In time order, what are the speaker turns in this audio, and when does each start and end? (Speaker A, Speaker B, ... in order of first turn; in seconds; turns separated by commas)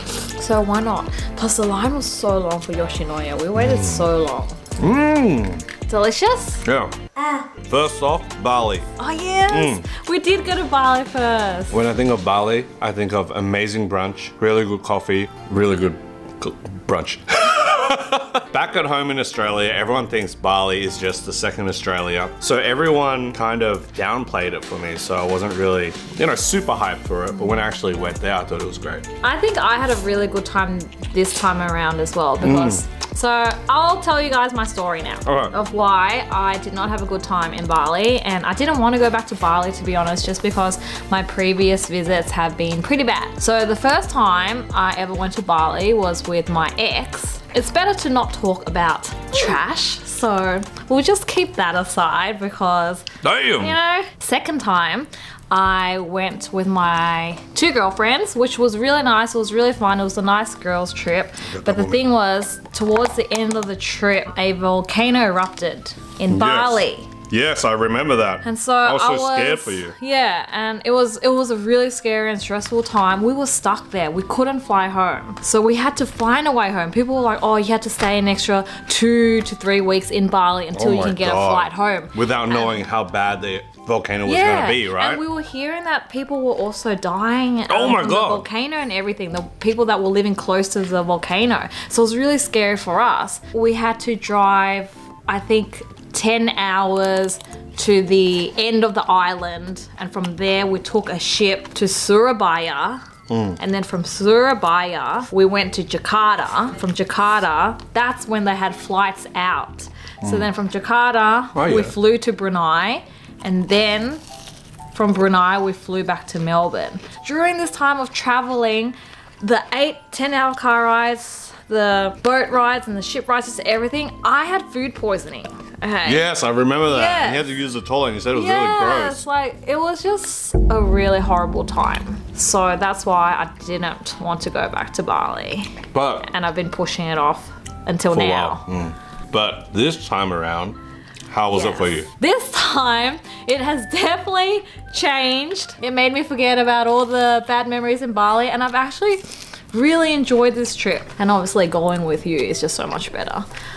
Speaker A: 0.3-4.6, Speaker B: 3.5-4.1, Speaker B: 4.8-5.6, Speaker A: 5.9-6.7, Speaker B: 6.6-6.9, Speaker A: 7.2-7.5, Speaker B: 7.7-8.9, Speaker A: 9.0-11.8, Speaker B: 9.5-9.8, Speaker B: 11.7-29.1, Speaker A: 29.2-53.1, Speaker B: 32.4-32.8, Speaker B: 35.2-35.5, Speaker B: 53.2-53.8, Speaker A: 53.6-67.1, Speaker B: 61.5-62.1, Speaker B: 66.3-69.9, Speaker A: 68.4-82.8, Speaker B: 80.7-85.2, Speaker A: 84.2-103.0, Speaker B: 87.7-88.5, Speaker B: 103.3-103.6, Speaker A: 103.6-114.2, Speaker B: 110.2-110.5, Speaker B: 111.5-111.9, Speaker A: 114.9-126.3, Speaker B: 126.0-129.2, Speaker A: 126.9-127.5, Speaker A: 128.3-138.6, Speaker B: 135.9-136.3, Speaker B: 138.1-140.8, Speaker B: 141.3-142.1, Speaker A: 141.5-153.5